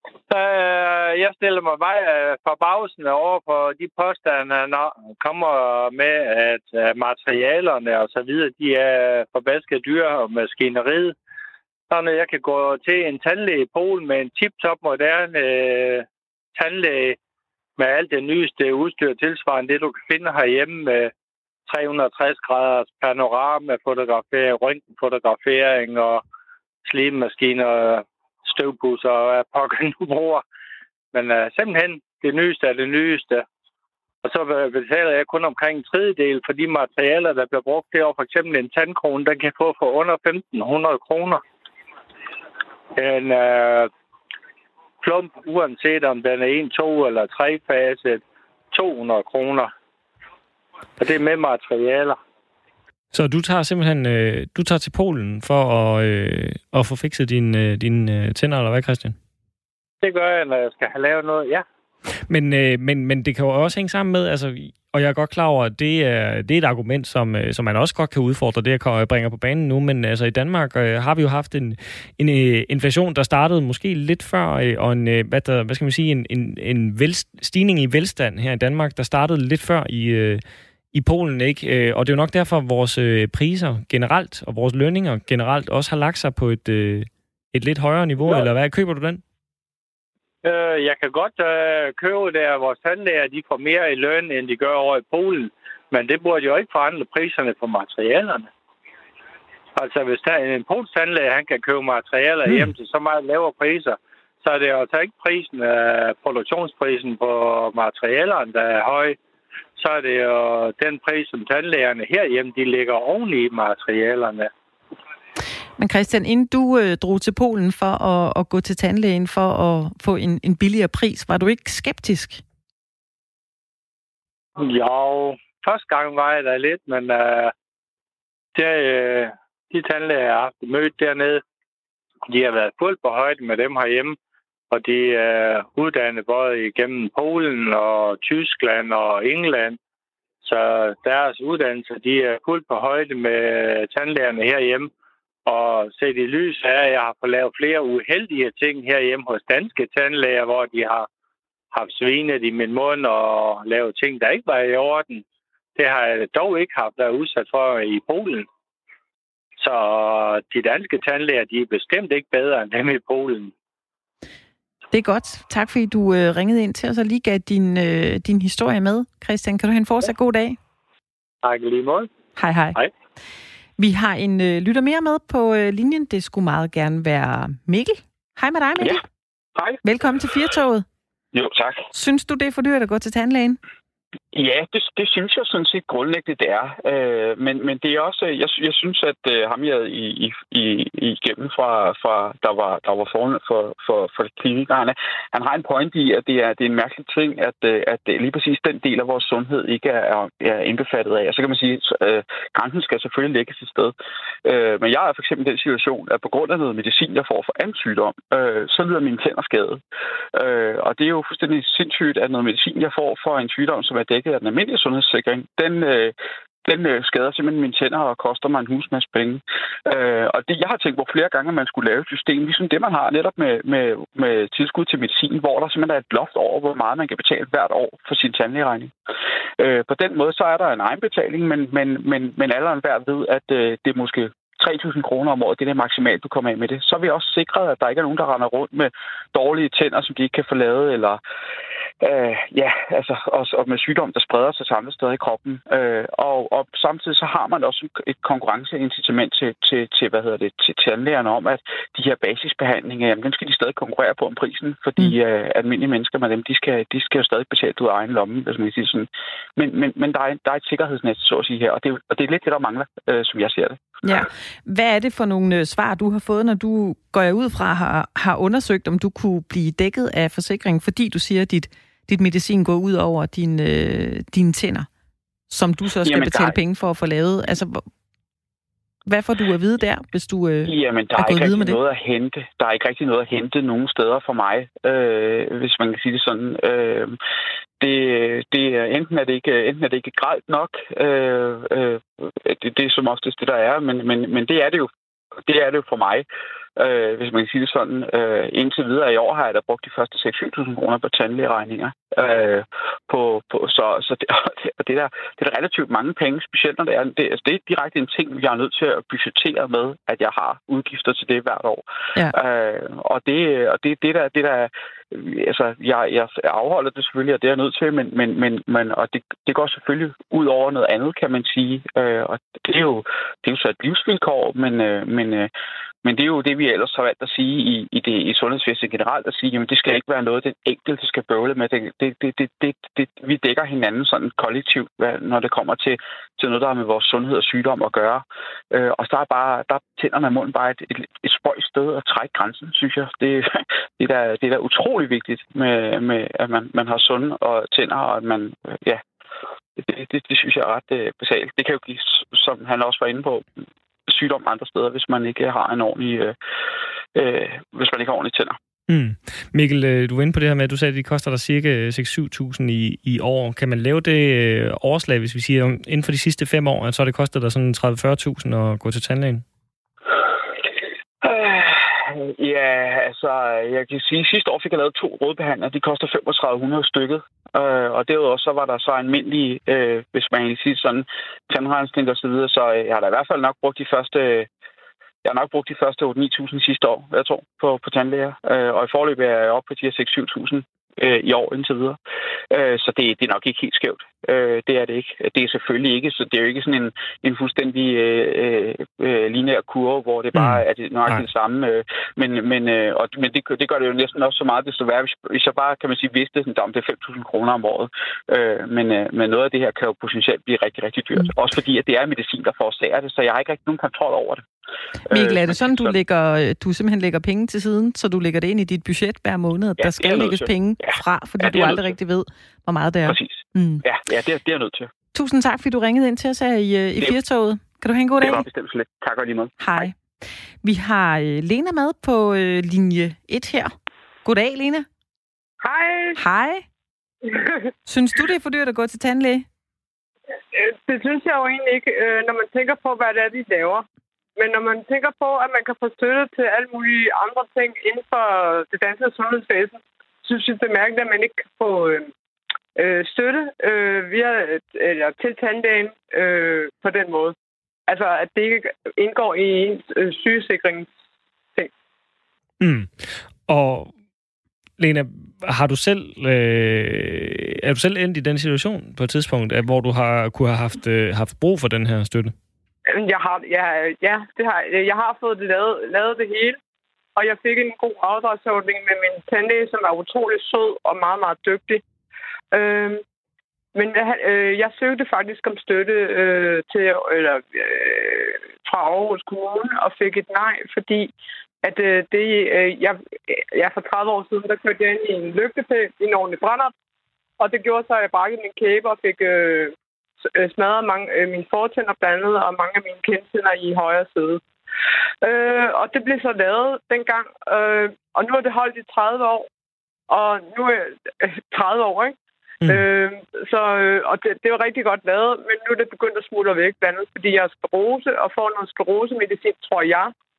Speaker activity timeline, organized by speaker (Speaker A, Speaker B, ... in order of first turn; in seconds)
Speaker A: 0.3-11.1, 11.9-17.2, 17.8-21.1, 21.7-26.2, 26.9-30.4, 31.1-33.4, 34.2-41.4, 42.9-43.9, 45.0-49.7, 51.0-52.2, 60.0-61.6, 88.2-88.5, 90.4-98.5, 99.7-109.2, 109.8-114.5, 124.6-127.5, 128.5-131.4, 132.2-134.2, 134.7-139.8, 140.4-144.9, 145.4-151.1, 151.7-155.2, 155.8-158.5, 159.6-163.5, 171.4-172.1
Speaker B: 53.1-59.1, 62.3-80.4, 80.9-89.2, 102.5-102.7, 358.9-369.4, 400.3-401.2, 462.6-463.9, 464.8-472.3
Speaker C: 115.8-122.4, 164.9-170.6, 172.3-172.8, 173.8-179.0, 179.8-180.8, 181.9-183.6, 264.0-274.9, 275.5-277.8, 279.1-281.8, 415.1-423.8, 425.1-428.4, 429.6-429.9, 430.6-433.7, 434.2-434.9, 436.2-436.6, 437.9-439.4
Speaker D: 181.3-181.9, 184.3-203.9, 204.4-209.8, 210.3-228.9, 229.6-241.2, 242.0-263.8, 276.0-276.5, 280.6-287.1, 287.8-294.9, 295.5-296.2, 296.8-325.5, 326.0-349.0, 349.8-353.4, 354.1-356.4, 357.1-358.6, 371.2-384.5, 385.2-392.0, 392.5-414.4, 415.1-416.0, 419.8-421.9, 423.1-424.9, 428.2-429.9
Speaker E: 435.6-436.2, 437.2-437.6, 440.5-443.9, 444.4-452.1, 452.8-457.3, 457.9-460.9, 472.9-476.6, 477.1-481.8, 482.5-483.0, 483.7-491.1, 491.6-496.7, 497.4-499.7, 500.3-504.4, 505.2-509.5, 510.1-512.1, 512.7-520.1